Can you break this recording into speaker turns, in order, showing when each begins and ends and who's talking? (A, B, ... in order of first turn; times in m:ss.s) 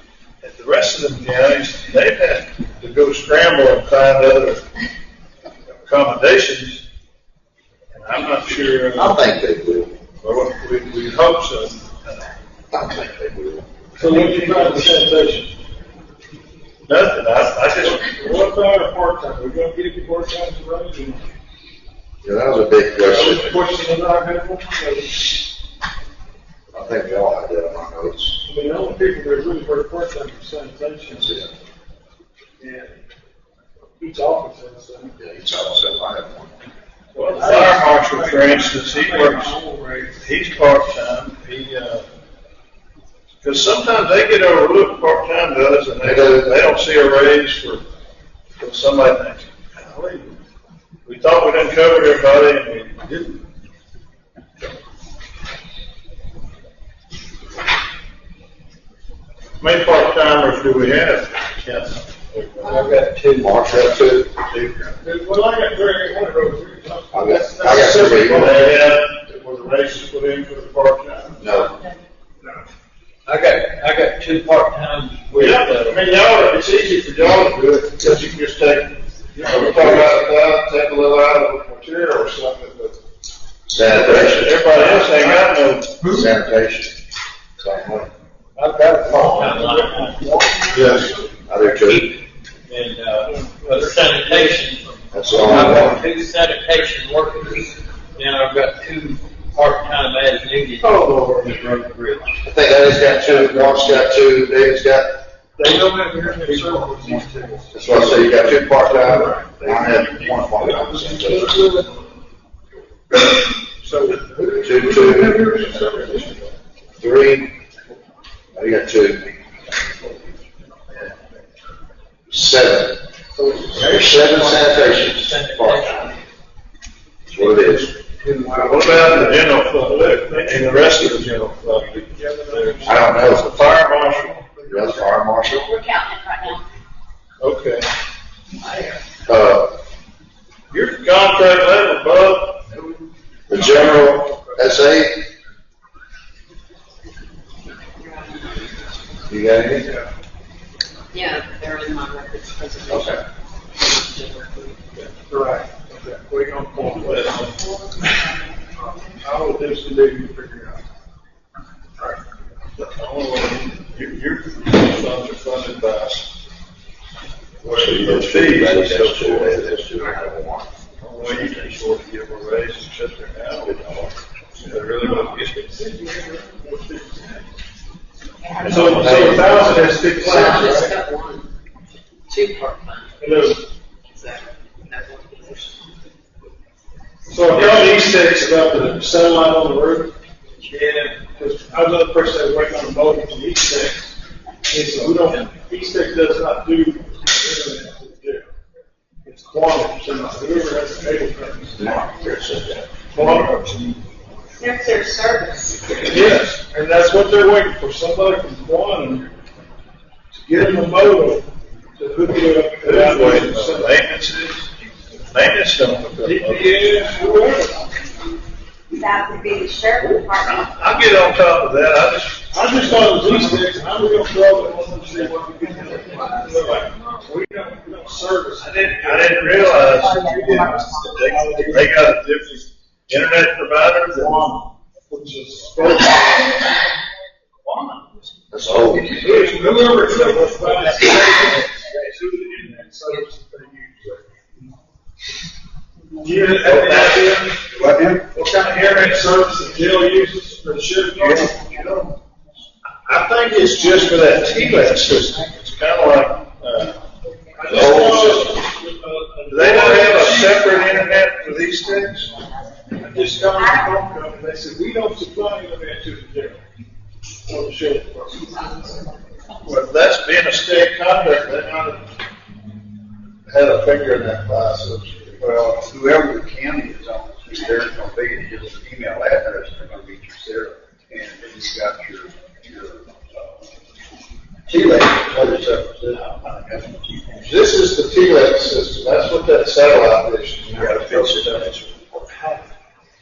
0:00.4-0:04.6 A
0:05.8-0:06.8 A
0:07.9-0:09.2 A
0:08.9-0:09.9 B
0:10.2-0:12.3 A
0:12.7-0:13.7 B
0:14.0-0:14.9 A
0:14.0-0:15.5 C
0:16.9-0:18.1 A
0:17.8-0:21.3 C
0:22.2-0:23.6 B
0:23.0-0:25.4 C
0:26.7-0:28.4 B
0:28.4-0:31.5 C
0:31.2-0:31.5 B
0:32.6-0:33.0 C
0:34.0-0:35.1 C
0:35.2-0:36.5 B
0:37.1-0:39.6 A
0:37.2-0:40.2 C
0:40.2-0:42.0 A
0:43.4-0:47.8 A
0:46.0-0:46.6 B
0:48.6-0:50.3 A
0:51.0-0:53.4 A
0:59.6-1:02.9 A
1:02.6-1:03.9 D
1:03.4-1:04.9 B
1:05.0-1:08.8 C
1:07.1-1:08.6 B
1:08.2-1:11.4 A
1:11.4-1:11.8 B
1:13.2-1:16.0 D
1:15.3-1:23.0 A
1:19.3-1:20.1 C
1:19.4-1:20.1 B
1:23.7-1:25.0 B
1:23.8-1:26.1 A
1:24.8-1:25.5 C
1:26.0-1:27.0 B
1:27.6-1:28.1 B
1:28.6-1:30.3 D
1:28.6-1:31.4 C
1:30.7-1:31.2 A
1:31.5-1:32.1 B
1:31.6-1:42.3 D
1:33.2-1:35.9 C
1:35.1-1:36.0 B
1:40.8-1:41.7 C
1:42.4-1:45.2 B
1:45.6-1:51.9 C
1:47.7-1:51.7 B
1:53.1-1:56.6 C
1:54.6-1:55.6 B
1:57.0-1:57.5 B
1:58.5-1:59.4 B
2:02.3-2:03.0 B
2:03.3-2:04.3 C
2:03.7-2:06.2 B
2:04.2-2:06.3 D
2:07.3-2:07.9 B
2:07.3-2:09.2 D
2:08.4-2:15.2 C
2:08.5-2:14.4 A
2:12.8-2:13.8 B
2:14.7-2:15.7 B
2:15.6-2:16.6 E
2:17.4-2:17.9 A
2:18.6-2:19.0 E
2:19.3-2:19.8 B
2:20.7-2:22.7 A
2:23.5-2:25.3 B
2:28.0-2:28.9 E
2:29.3-2:29.9 B
2:29.8-2:30.1 C
2:31.1-2:33.2 E
2:32.9-2:33.2 B
2:33.7-2:34.8 E
2:35.3-2:37.3 C
2:37.0-2:37.5 A
2:37.2-2:39.2 E
2:38.8-2:40.8 C
2:42.8-2:46.3 A
2:47.6-2:49.8 A
2:47.6-2:50.7 B
2:51.0-2:55.6 A
2:53.6-2:54.1 B
2:54.6-2:57.5 C
2:58.4-2:58.8 E
2:58.6-2:59.8 B
2:58.6-3:00.9 C
2:58.8-2:59.4 A
3:00.2-3:01.5 E
3:02.3-3:03.1 E
3:03.2-3:03.6 C
3:04.1-3:05.7 E
3:07.3-3:10.1 C
3:07.5-3:08.0 D
3:10.7-3:11.2 D
3:10.8-3:14.2 C
3:14.7-3:18.5 C
3:15.2-3:15.5 D
3:19.2-3:22.0 C
3:21.8-3:22.9 B
3:23.1-3:23.8 C
3:23.1-3:24.0 A
3:24.6-3:26.0 E
3:26.0-3:29.3 C
3:30.3-3:34.0 C
3:32.8-3:34.7 A
3:35.2-3:37.0 A
3:36.2-3:38.0 C
3:38.9-3:41.1 E
3:40.0-3:43.6 A
3:42.5-3:49.9 C
3:45.6-3:46.8 E
3:48.6-3:54.6 A
3:49.7-3:51.4 E
3:50.5-3:52.1 C
3:54.1-3:56.8 C
3:57.6-4:00.3 A
3:58.5-3:59.3 B
3:59.1-4:04.3 C
4:00.0-4:01.7 D
4:01.8-4:02.3 A
4:06.2-4:07.7 C
4:06.6-4:07.4 A
4:07.8-4:08.2 B
4:08.2-4:11.8 C
4:11.2-4:11.5 A
4:11.5-4:12.0 E
4:13.0-4:17.0 A
4:13.2-4:13.6 C
4:13.6-4:15.4 E
4:17.0-4:17.8 E
4:17.5-4:21.3 C
4:17.7-4:18.4 A
4:17.7-4:18.5 B
4:19.5-4:22.3 A
4:22.9-4:26.6 C
4:23.4-4:24.0 E
4:27.4-4:29.0 C
4:28.5-4:29.2 E
4:29.6-4:32.1 A
4:33.4-4:35.6 A
4:35.7-4:43.5 F
4:45.4-4:45.7 A
4:46.2-4:47.4 F
4:47.4-4:52.4 A
4:50.7-4:51.6 F